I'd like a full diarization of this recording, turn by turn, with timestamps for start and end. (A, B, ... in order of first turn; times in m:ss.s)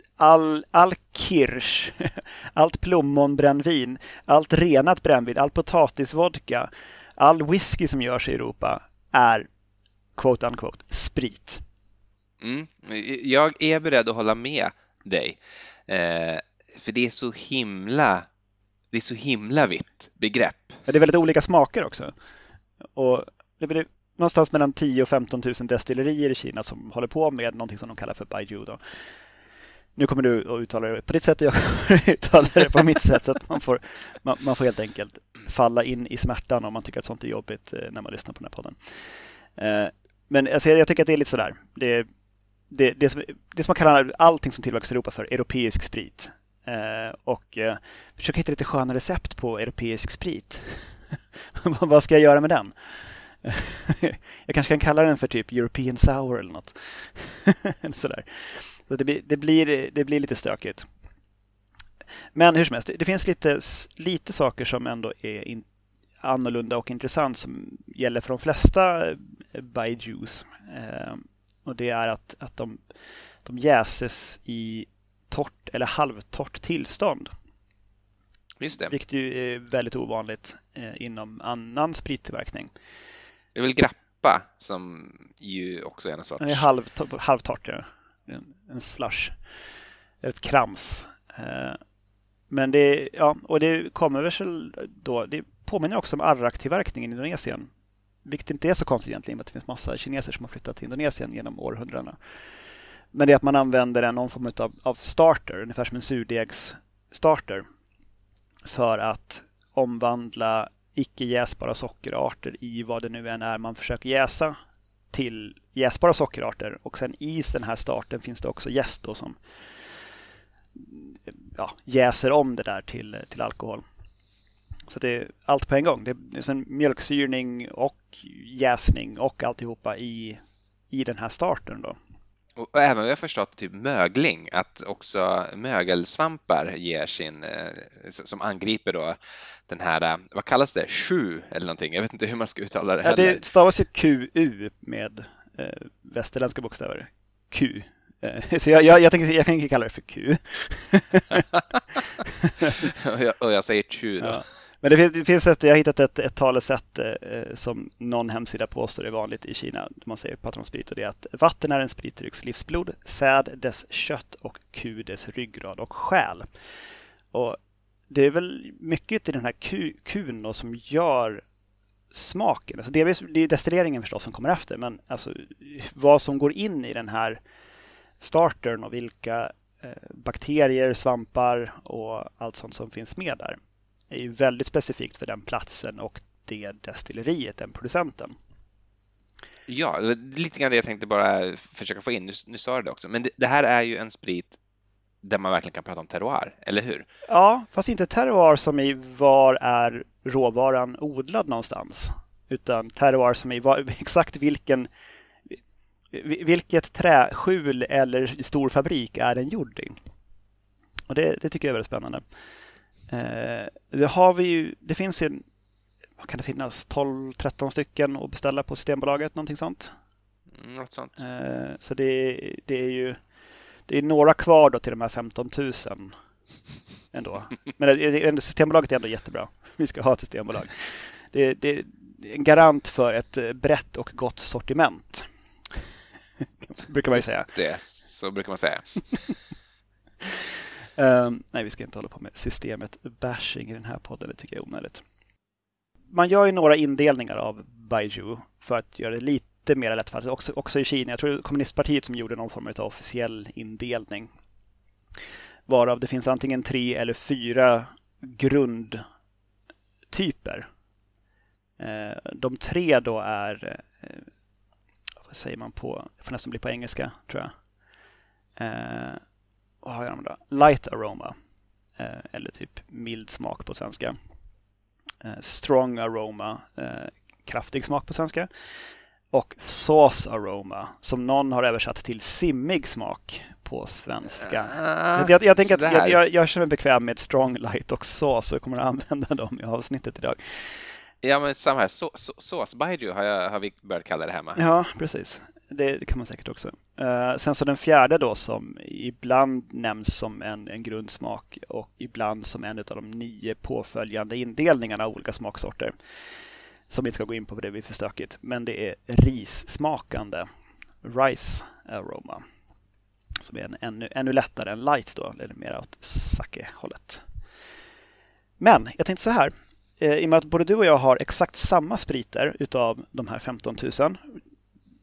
0:00.2-0:09.5 A
0:10.2-0:11.6 A
0:12.4-0:18.3 B
0:18.9-0:20.8 B
0:20.9-0:22.1 A
0:22.9-0:28.8 A
0:30.0-0:38.8 A
0:39.6-0:42.1 A
0:42.7-0:50.9 A
0:51.5-0:52.7 A
0:53.4-1:00.8 A
1:02.3-1:05.6 A
1:06.2-1:12.8 A
1:13.4-1:17.3 A
1:18.6-1:18.9 B
1:18.9-1:22.7 A
1:23.5-1:26.6 B
1:26.4-1:29.4 A
1:30.2-1:31.8 A
1:32.5-1:37.7 A
1:38.2-1:42.2 A
1:43.1-1:47.6 A
1:48.6-1:54.6 A
1:55.1-1:59.4 A
2:00.7-2:03.8 A
2:04.9-2:10.4 A
2:10.9-2:12.0 A
2:12.6-2:19.2 B
2:19.7-2:23.4 B
2:23.0-2:31.4 A
2:32.2-2:32.9 A
2:32.8-2:34.4 B
2:34.2-2:46.5 A
2:47.3-2:47.6 A
2:48.1-2:51.4 A
2:52.1-2:57.4 A
2:58.2-3:03.6 A
3:04.1-3:08.3 A
3:09.7-3:14.6 B
3:15.2-3:17.0 B
3:17.3-3:24.9 A
3:26.1-3:30.0 A
3:31.1-3:32.2 A
3:33.1-3:35.4 A
3:36.2-3:39.9 A
3:40.5-3:41.1 B
3:41.2-3:43.2 A
3:43.9-3:46.1 A
3:47.1-3:55.3 A
3:56.6-3:57.5 A
3:57.1-3:59.0 B
4:00.2-4:05.0 A
4:06.1-4:14.3 A
4:15.7-4:19.0 A
4:20.1-4:20.7 A
4:21.8-4:24.3 A
4:25.3-4:27.5 A
4:28.6-4:29.2 A
4:29.8-4:31.3 A
4:32.0-4:34.2 A
4:35.2-4:38.5 A
4:39.3-4:50.4 A
4:44.4-4:46.2 B
4:51.2-4:54.6 B
4:54.6-5:05.9 A
5:06.9-5:10.5 A
5:11.0-5:12.4 A
5:13.4-5:17.2 A
5:18.6-5:24.4 A